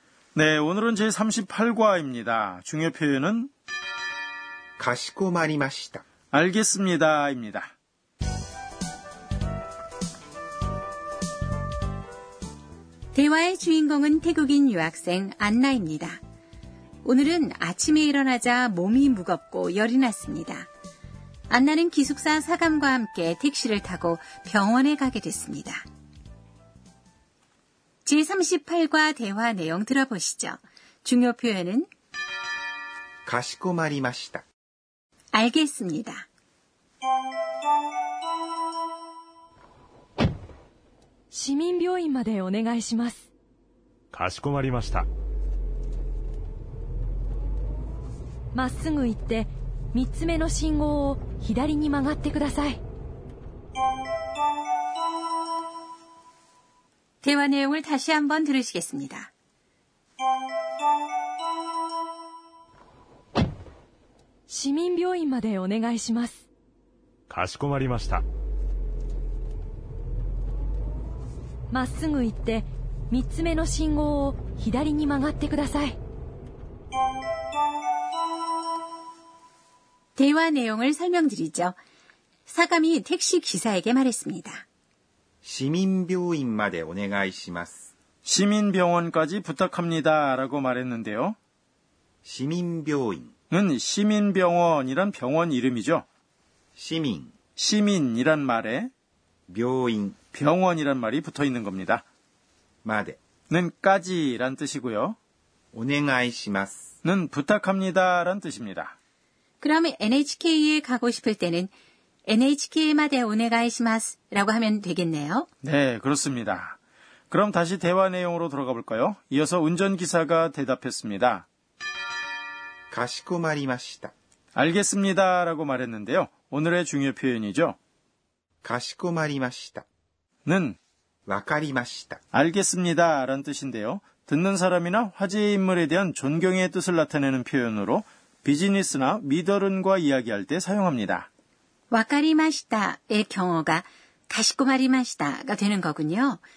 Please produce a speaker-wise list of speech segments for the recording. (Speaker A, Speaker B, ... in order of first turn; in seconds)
Speaker A: 0.3-3.5, 6.3-7.7, 88.2-91.4, 93.5-96.0, 97.6-98.9, 100.3-102.0, 103.5-105.2, 107.0-109.0, 115.6-116.8, 117.3-121.5, 124.5-127.8, 130.5-130.8, 132.3-141.3
Speaker B: 4.8-6.0, 33.2-34.5, 85.4-87.9, 92.2-93.3, 96.8-97.3, 99.5-100.2, 102.8-103.2, 105.7-106.9, 122.9-124.1, 128.6-129.9, 131.3-132.2
Speaker C: 13.1-16.2, 17.0-20.7, 21.5-25.8, 28.1-31.9, 35.3-36.3, 57.2-59.3, 80.2-81.8, 82.5-84.7, 109.6-111.7, 112.3-115.5, 141.9-146.4
Speaker D: 41.3-43.3, 48.5-52.8, 64.5-66.5, 71.7-76.0
Speaker E: 44.1-45.1, 67.3-68.2